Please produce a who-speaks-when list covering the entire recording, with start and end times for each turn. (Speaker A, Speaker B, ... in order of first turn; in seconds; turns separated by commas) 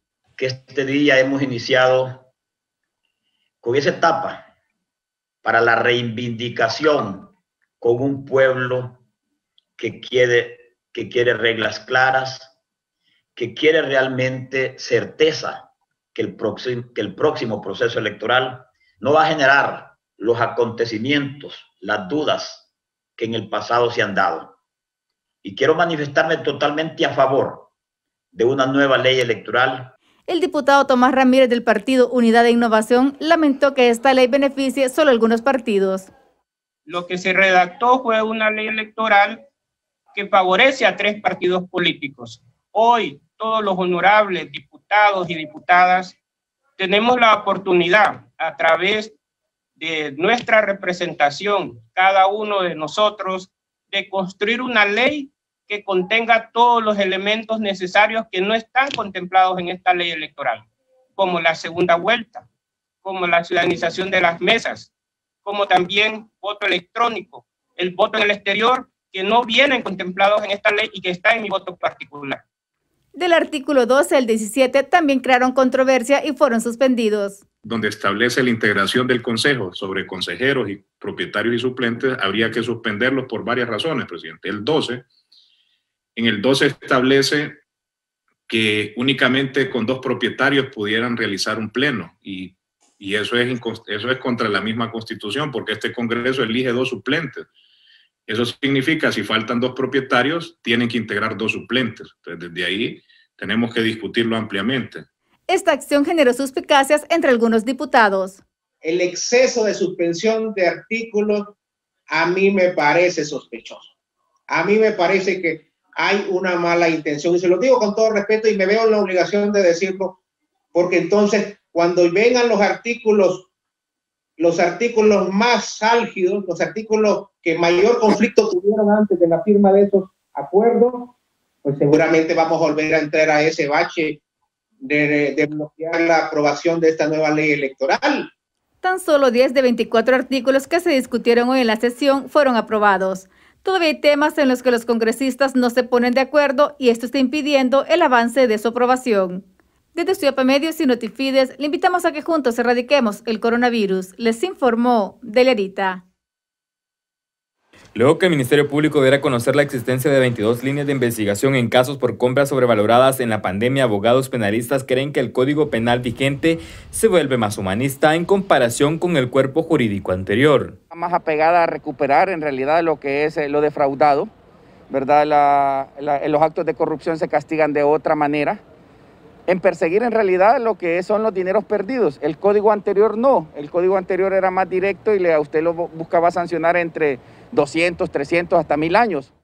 Speaker A: 0.4-2.2, Speaker A: 3.6-4.5, Speaker A: 5.4-9.0, Speaker A: 9.8-12.5, Speaker A: 13.3-24.5, Speaker A: 25.4-27.7, Speaker A: 28.3-29.9, Speaker B: 30.3-36.1, Speaker C: 36.9-39.4, Speaker C: 40.1-46.2, Speaker C: 46.8-49.1, Speaker C: 49.8-60.6, Speaker C: 61.2-62.5, Speaker C: 63.0-64.9, Speaker C: 65.4-72.4, Speaker B: 73.1-77.4, Speaker D: 77.6-85.0, Speaker D: 86.2-87.6, Speaker D: 88.5-97.5, Speaker D: 98.3-105.0, Speaker B: 105.5-108.4, Speaker E: 108.8-111.5, Speaker E: 112.1-113.9, Speaker E: 114.5-120.2, Speaker E: 120.7-123.4, Speaker E: 124.4-128.6, Speaker E: 129.5-131.1, Speaker E: 131.7-134.2, Speaker E: 134.8-138.3, Speaker B: 138.8-156.0, Speaker F: 157.9-170.8, Speaker G: 170.9-174.3, Speaker G: 174.9-178.6, Speaker G: 179.5-189.3